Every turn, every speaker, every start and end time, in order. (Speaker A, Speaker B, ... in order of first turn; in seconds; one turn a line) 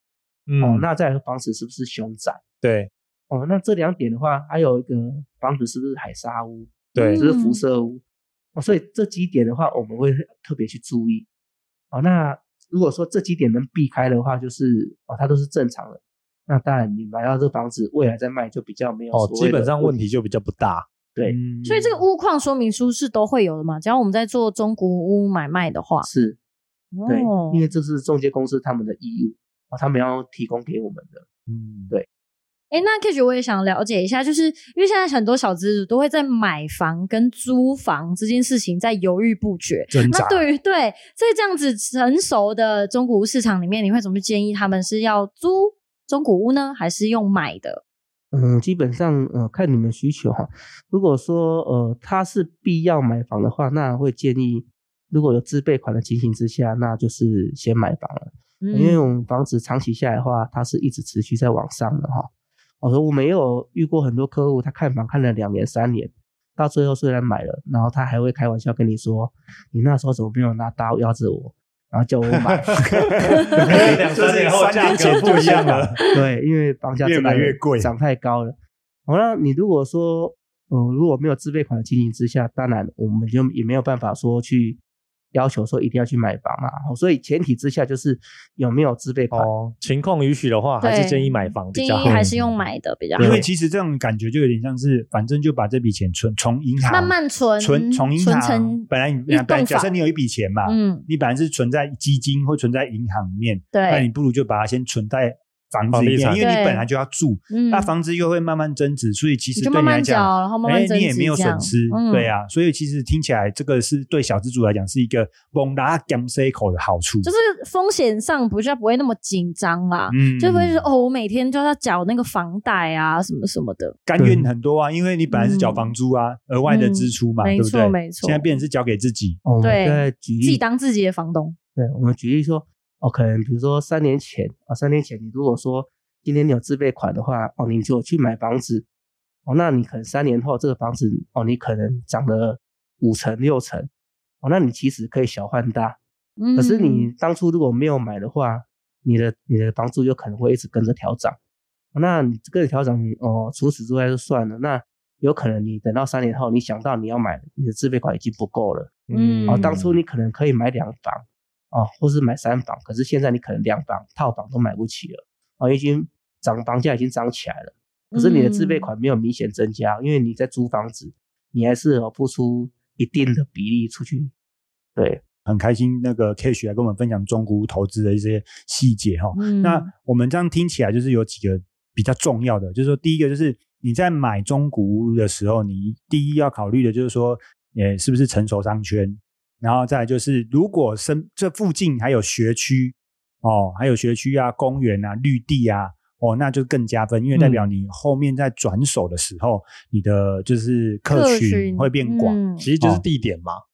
Speaker A: 0.5-0.8
Speaker B: 0.6-2.4
Speaker A: 2.6-2.9
Speaker B: 3.3-8.0
Speaker A: 6.9-7.2
Speaker C: 7.0-7.6
Speaker B: 8.6-11.3
Speaker B: 11.9-20.0
Speaker A: 19.1-20.9
Speaker D: 21.2-22.0
Speaker C: 21.6-26.1
Speaker B: 26.0-26.4
Speaker C: 26.9-27.6
Speaker B: 27.1-31.2
Speaker D: 31.5-31.9
Speaker C: 32.7-47.8
Speaker D: 39.9-40.5
Speaker B: 48.3-62.3
Speaker C: 58.6-59.0
Speaker B: 62.8-72.7
Speaker D: 72.8-76.0
Speaker A: 73.6-76.0
Speaker B: 75.1-78.5
Speaker D: 77.0-77.9
Speaker B: 79.1-84.8
Speaker B: 85.3-89.5
Speaker A: 89.3-92.5
Speaker C: 90.8-93.4
Speaker D: 92.0-92.3
Speaker A: 93.2-93.4
Speaker D: 93.2-117.3
Speaker C: 96.9-99.9
Speaker C: 100.6-101.0
Speaker C: 103.7-104.1
Speaker A: 105.9-106.5
Speaker C: 106.4-106.9
Speaker C: 107.5-107.9
Speaker C: 109.5-112.3
Speaker C: 117.2-124.0
Speaker D: 120.1-120.9
Speaker D: 124.0-129.4
Speaker B: 124.2-124.5
Speaker C: 125.3-125.9
Speaker C: 126.7-128.6
Speaker B: 129.4-130.6
Speaker C: 129.6-131.6
Speaker B: 131.8-138.9
Speaker B: 139.4-143.9
Speaker B: 144.4-146.0
Speaker C: 146.4-147.1
Speaker B: 146.5-151.4
Speaker B: 151.9-158.9
Speaker A: 159.1-159.9
Speaker C: 159.1-159.8
Speaker B: 159.5-174.3
Speaker C: 168.1-168.9
Speaker B: 174.9-175.2
Speaker D: 175.4-203.0
Speaker C: 179.3-179.9
Speaker A: 197.3-197.7
Speaker C: 201.1-202.7
Speaker A: 202.6-203.6